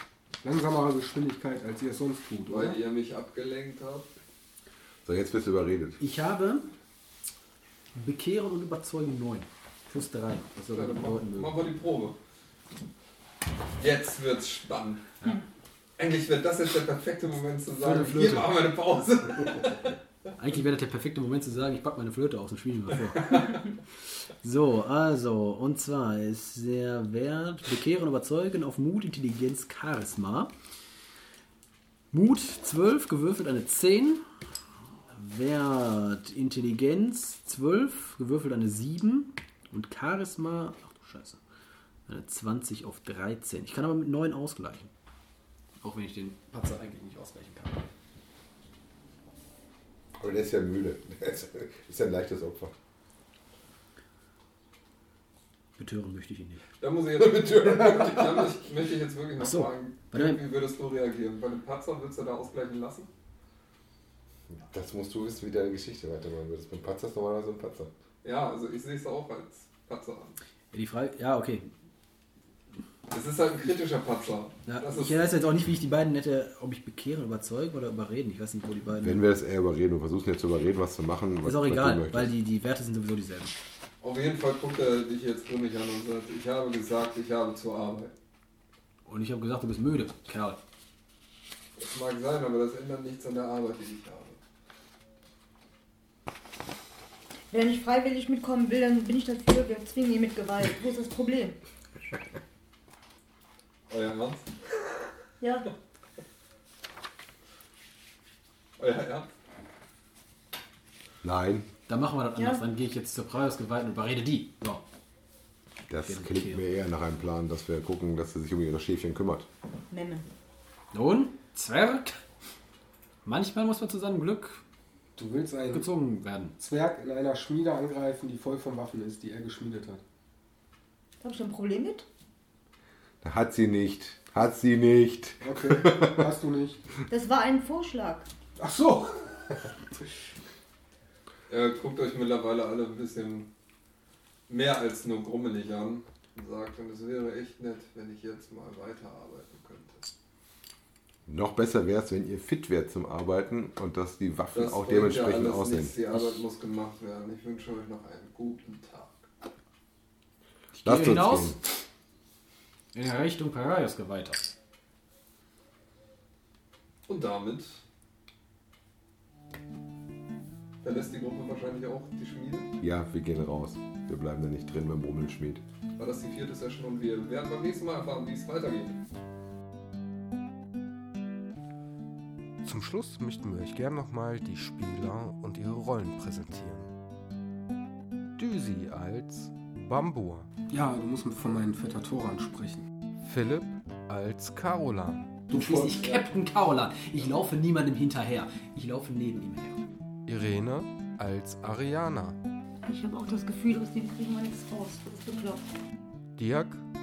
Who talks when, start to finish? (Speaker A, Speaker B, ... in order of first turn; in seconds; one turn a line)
Speaker A: 0.4-2.8
Speaker B: 2.5-4.1
Speaker C: 5.0-6.0
Speaker D: 6.0-6.7
Speaker D: 7.9-11.7
Speaker B: 10.7-12.2
Speaker B: 13.8-15.1
Speaker B: 16.0-20.0
Speaker D: 17.8-18.6
Speaker D: 20.4-30.5
Speaker B: 23.1-23.6
Speaker D: 32.1-34.2
Speaker D: 35.1-41.4
Speaker D: 42.1-44.9
Speaker D: 45.8-47.9
Speaker C: 50.2-52.7
Speaker D: 55.8-56.6
Speaker B: 56.8-63.1
Speaker D: 59.4-60.4
Speaker C: 64.5-67.9
Speaker B: 68.2-70.4
Speaker D: 70.7-71.7
Speaker B: 73.1-75.3
Speaker D: 74.7-79.2
Speaker C: 79.0-82.3
Speaker D: 81.4-83.5
Speaker B: 84.0-88.1
Speaker D: 89.0-90.6
Speaker B: 91.8-94.4
Speaker E: 97.5-101.6
Speaker B: 103.9-104.8
Speaker E: 105.4-105.7
Speaker B: 108.8-109.3
Speaker C: 111.2-111.7
Speaker D: 111.9-114.8
Speaker E: 112.4-112.6
Speaker C: 115.9-119.5
Speaker D: 116.0-116.6
Speaker E: 119.9-120.3
Speaker D: 120.9-122.2
Speaker D: 123.2-124.6
Speaker A: 125.2-125.9
Speaker D: 125.7-126.5
Speaker A: 126.6-130.0
Speaker E: 131.2-132.1
Speaker C: 133.2-136.2
Speaker A: 135.4-136.8
Speaker E: 137.1-138.3
Speaker A: 138.6-139.7
Speaker B: 141.5-143.5
Speaker B: 144.5-150.1
Speaker C: 151.3-155.9
Speaker B: 154.5-159.3
Speaker D: 156.1-156.4
Speaker D: 160.7-161.7
Speaker C: 160.8-161.6
Speaker D: 162.9-164.4
Speaker B: 167.1-167.8
Speaker B: 170.8-172.7
Speaker C: 172.8-175.6
Speaker B: 176.0-179.0
Speaker A: 182.6-186.9
Speaker A: 188.3-196.0
Speaker D: 195.5-199.8
Speaker A: 200.2-202.4
Speaker E: 202.8-205.7
Speaker A: 206.3-206.8